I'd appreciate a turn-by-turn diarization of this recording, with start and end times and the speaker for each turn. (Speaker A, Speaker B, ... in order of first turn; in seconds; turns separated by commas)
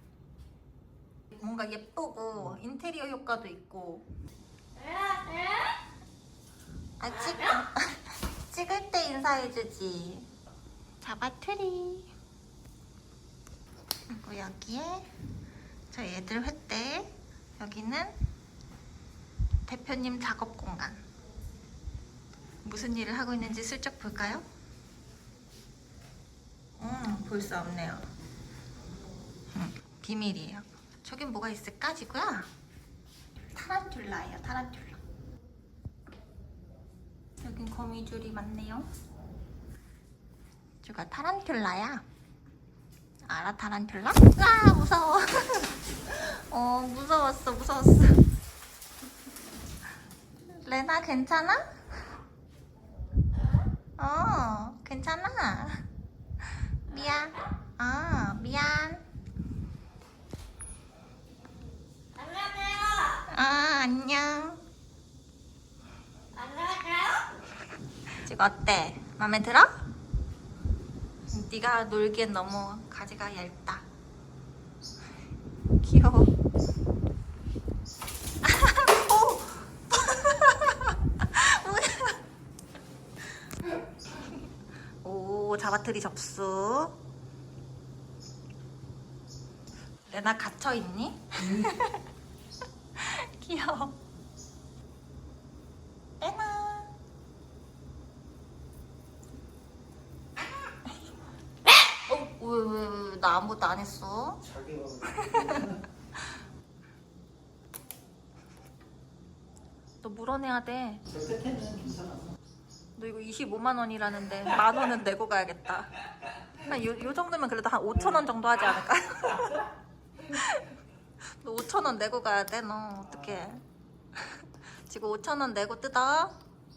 Speaker A: 1.3-4.1, Speaker A: 7.0-10.3, Speaker A: 11.0-12.1, Speaker A: 14.1-15.1, Speaker A: 15.9-18.2, Speaker A: 19.6-21.0, Speaker A: 22.6-24.4, Speaker A: 26.8-28.1, Speaker A: 29.5-32.5, Speaker A: 33.5-35.0, Speaker A: 37.4-38.9, Speaker A: 40.8-42.0, Speaker A: 43.2-48.2, Speaker A: 50.4-51.7, Speaker A: 54.0-55.9, Speaker A: 56.9-59.0, Speaker A: 63.1-64.6, Speaker A: 68.2-69.7, Speaker A: 71.3-73.9, Speaker A: 75.8-76.3, Speaker A: 78.4-82.2, Speaker A: 84.1-84.4, Speaker A: 85.0-87.0, Speaker A: 90.1-92.0, Speaker B: 91.4-91.8, Speaker A: 93.0-94.0, Speaker A: 96.2-96.9, Speaker A: 101.8-104.4, Speaker B: 104.4-105.8, Speaker A: 105.1-105.8, Speaker A: 110.0-111.0, Speaker B: 111.1-112.4, Speaker A: 113.0-119.6, Speaker A: 120.2-120.8, Speaker A: 121.4-123.6, Speaker B: 123.1-123.5, Speaker A: 124.2-126.4